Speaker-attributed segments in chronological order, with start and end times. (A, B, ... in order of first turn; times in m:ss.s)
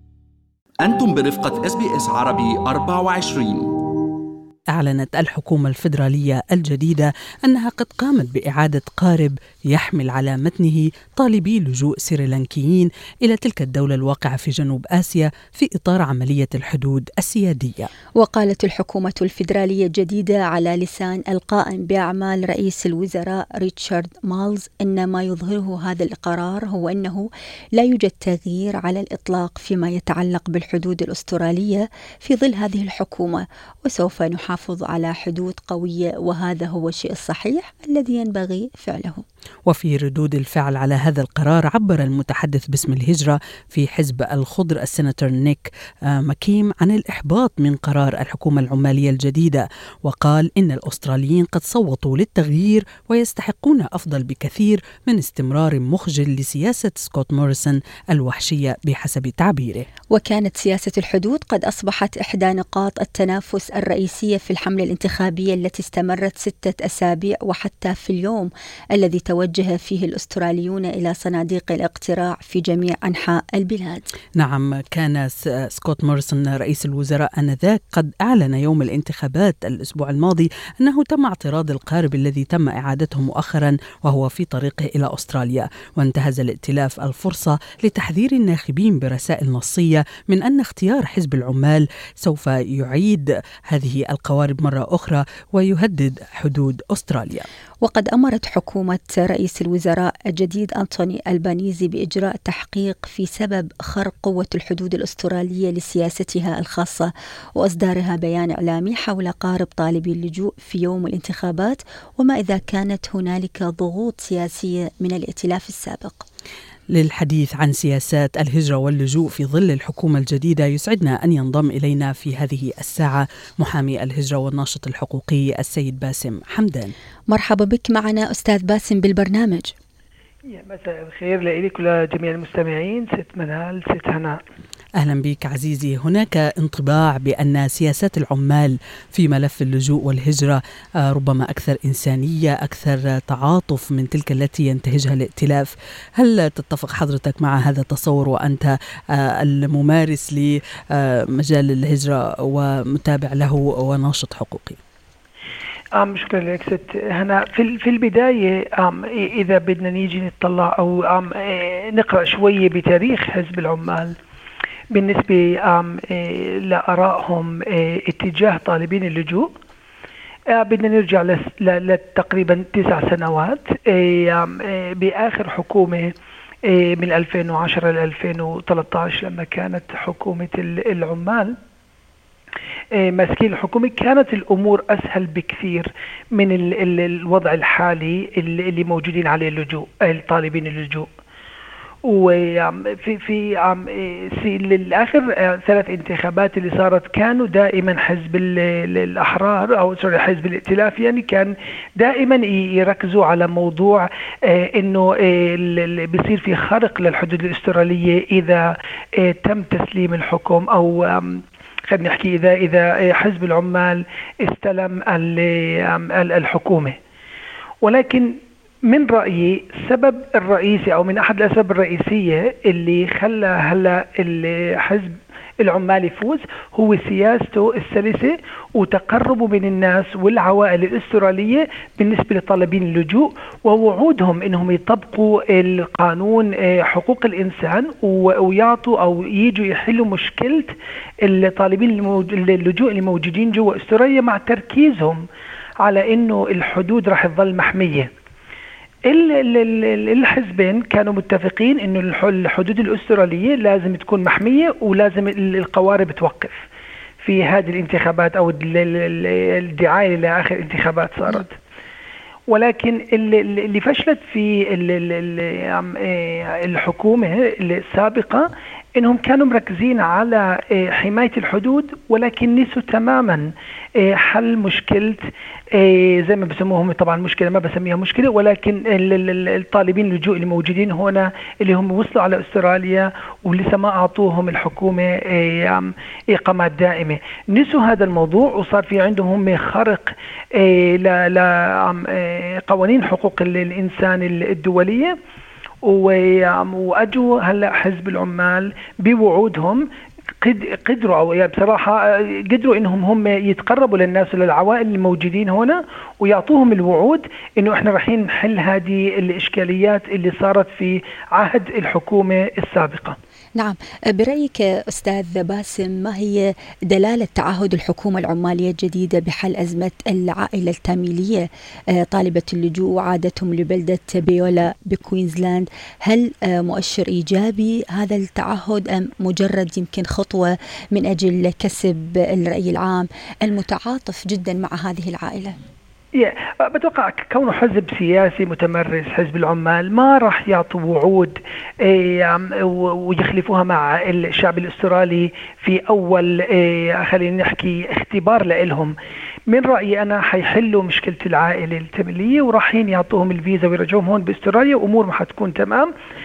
0:00.8-0:04.2 A
0:04.7-0:17.9 B
0:18.2-0:39.2 C
0:39.7-0:59.8 B
1:00.1-1:14.0 C
1:14.4-1:37.4 B
1:37.8-1:56.2 C
1:56.9-2:06.9 B
2:07.3-2:09.7 C
2:10.5-2:14.4 D
2:15.0-2:28.7 B
2:29.4-2:34.8 B
2:36.0-2:44.1 D
2:44.9-2:49.5 D
2:50.5-2:56.1 D
2:56.6-3:01.5 D
3:03.0-3:11.0 D
3:12.1-3:37.0 D
3:37.8-3:38.3 D
3:38.8-4:05.2 D
4:05.8-4:08.1 D
4:09.1-4:16.6 D
4:17.2-4:21.5 D
4:22.5-4:35.2 D
4:35.8-4:55.1 D
4:55.8-4:59.8 D
5:00.4-5:13.2 D
5:13.6-5:21.5 C
5:22.0-5:35.6 C
5:36.2-5:48.9 D
5:49.5-5:55.9 D